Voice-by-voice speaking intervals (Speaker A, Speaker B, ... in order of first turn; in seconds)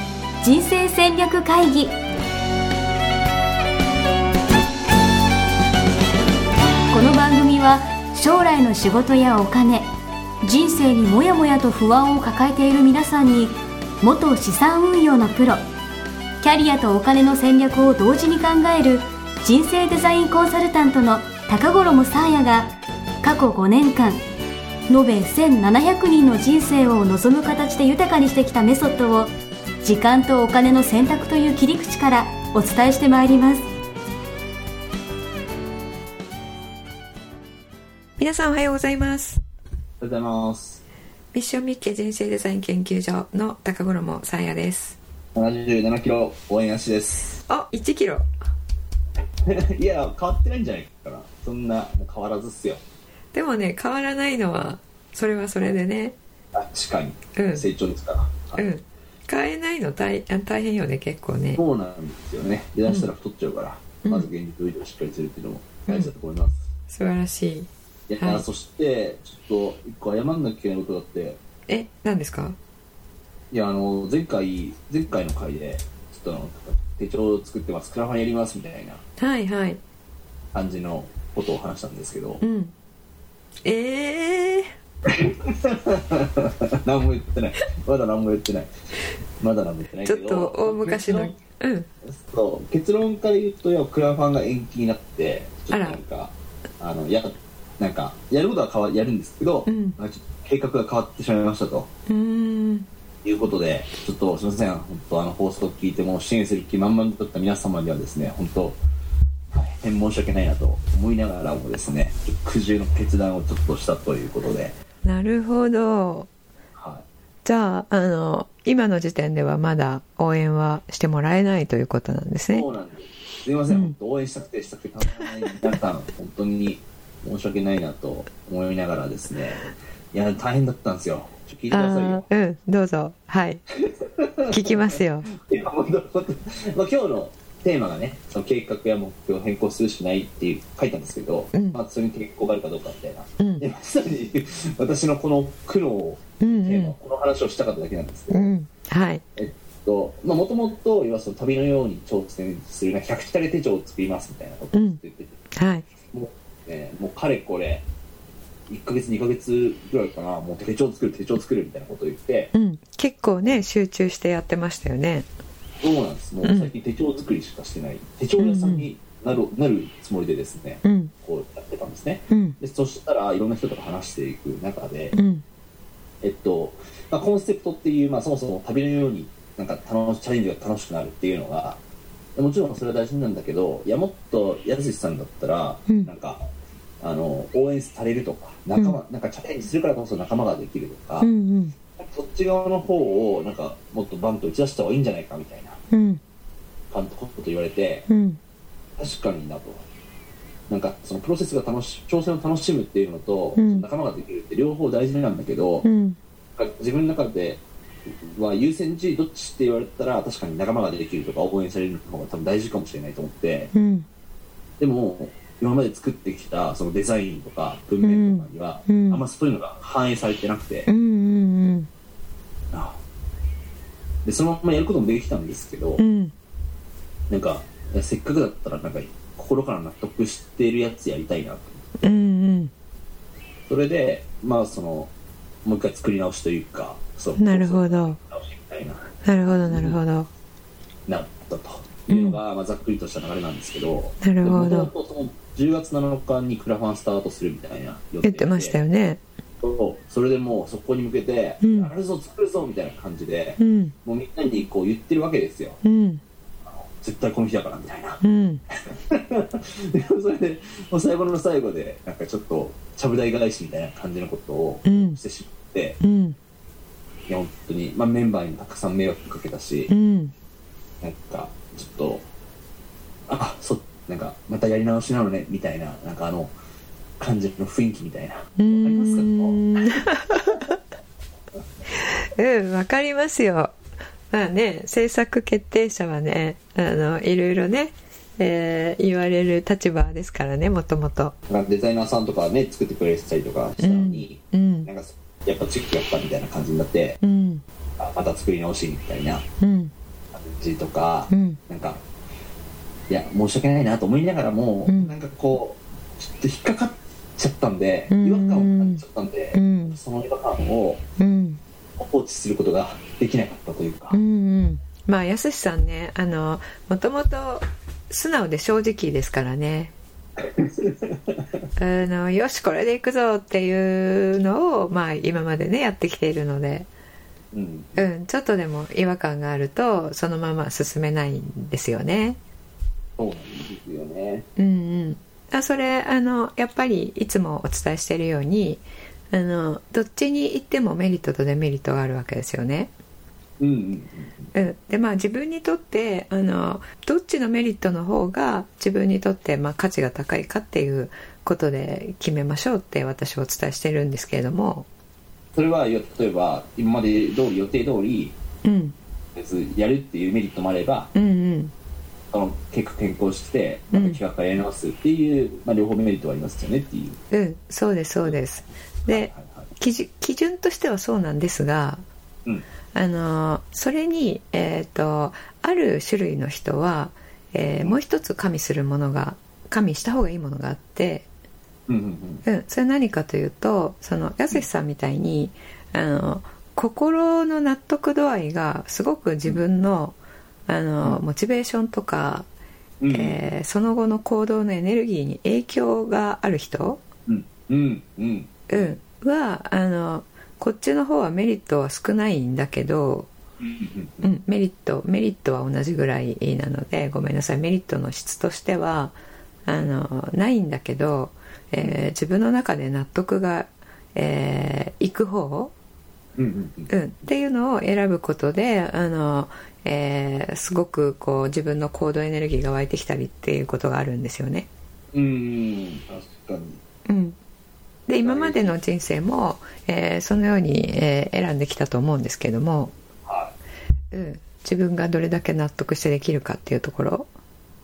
Speaker A: 0.4-2.0, 6.9-9.9, 10.4-15.6, 16.4-22.7, 23.2-24.2, 24.9-29.3, 29.8-33.7
Speaker B: 38.2-39.4, 41.3-45.0, 47.5-48.3, 53.3-56.2, 57.4-57.6, 58.5-61.6, 64.0-64.3, 65.9-66.1, 66.9-67.7, 71.7-72.6, 79.2-79.8, 82.4-82.7, 83.6-84.7, 90.0-91.9, 95.7-96.0, 99.7-100.0, 102.1-102.9, 115.0-116.3, 117.4-122.7, 123.7-124.0, 131.7-133.6, 134.5-135.3, 141.5-141.8, 143.4-143.7, 146.4-146.9, 148.3-149.2, 154.7-155.0, 155.5-155.8, 162.5-165.3, 166.4-166.7, 168.4-168.9, 170.8-171.1, 172.3-172.6, 175.1-175.4, 191.2-191.7, 195.9-196.2, 198.1-198.4, 203.6-203.8, 205.8-206.2, 213.7-214.1, 218.0-219.2, 220.9-221.9, 226.0-226.3, 232.0-232.7, 237.4-238.2, 239.2-240.3, 242.1-242.4, 244.2-244.9, 248.2-249.2, 251.6-251.9, 253.6-253.9, 255.8-256.2, 258.2-258.6, 264.8-265.2, 266.0-266.4, 269.9-270.3, 278.6-280.8, 282.0-283.7, 284.3-291.3, 293.8-294.9, 297.2-297.6, 299.6-299.9, 301.3-301.6, 304.9-305.1, 308.1-309.0, 309.5-310.0, 311.2-311.6, 314.1-319.9, 321.8-326.9, 328.0-332.4, 334.6-342.9, 344.5-354.9, 358.6-358.9, 361.1-361.7, 363.9-364.2, 367.3-372.0, 372.9-381.3, 382.4-390.2, 390.7-392.5, 393.1-397.0, 398.7-403.3, 404.2-409.1, 409.7-415.7, 416.9-424.7, 427.1-427.4, 428.1-432.9, 434.1-437.3
Speaker C: 40.0-40.8, 45.3-47.4, 49.4-52.8, 56.5-58.7, 61.5-66.6, 68.1-71.4, 73.5-79.0, 80.5-82.4, 85.1-91.3, 92.1-101.9, 103.2-108.8, 109.5-114.7, 116.8-117.0, 122.5-132.2, 133.8-148.5, 149.3-157.8, 158.7-162.5, 165.8-175.1, 176.2-181.8, 182.3-186.5, 187.0-191.3, 192.0-195.8, 196.9-198.1, 199.0-199.8, 200.7-205.8, 206.6-213.7, 214.8-220.9, 222.7-223.0, 224.2-226.0, 227.3-231.9, 233.7-235.1, 235.6-240.0, 241.1-248.8, 249.6-255.8, 256.7-266.0, 267.3-269.9, 271.0-272.2, 273.3-276.5, 277.2-280.7, 291.5-297.2, 298.0-299.4, 300.3-302.0, 303.1-311.0, 312.0-314.2, 320.4-321.6, 327.5-328.1, 333.2-334.4, 343.6-344.5, 355.5-358.4, 359.3-361.1, 362.3-367.2, 369.0-369.7, 381.9-382.4, 393.0-393.5, 397.3-398.9, 403.6-404.3, 411.8-412.1, 416.4-416.9, 425.1-426.8, 428.2-428.8, 433.2-433.5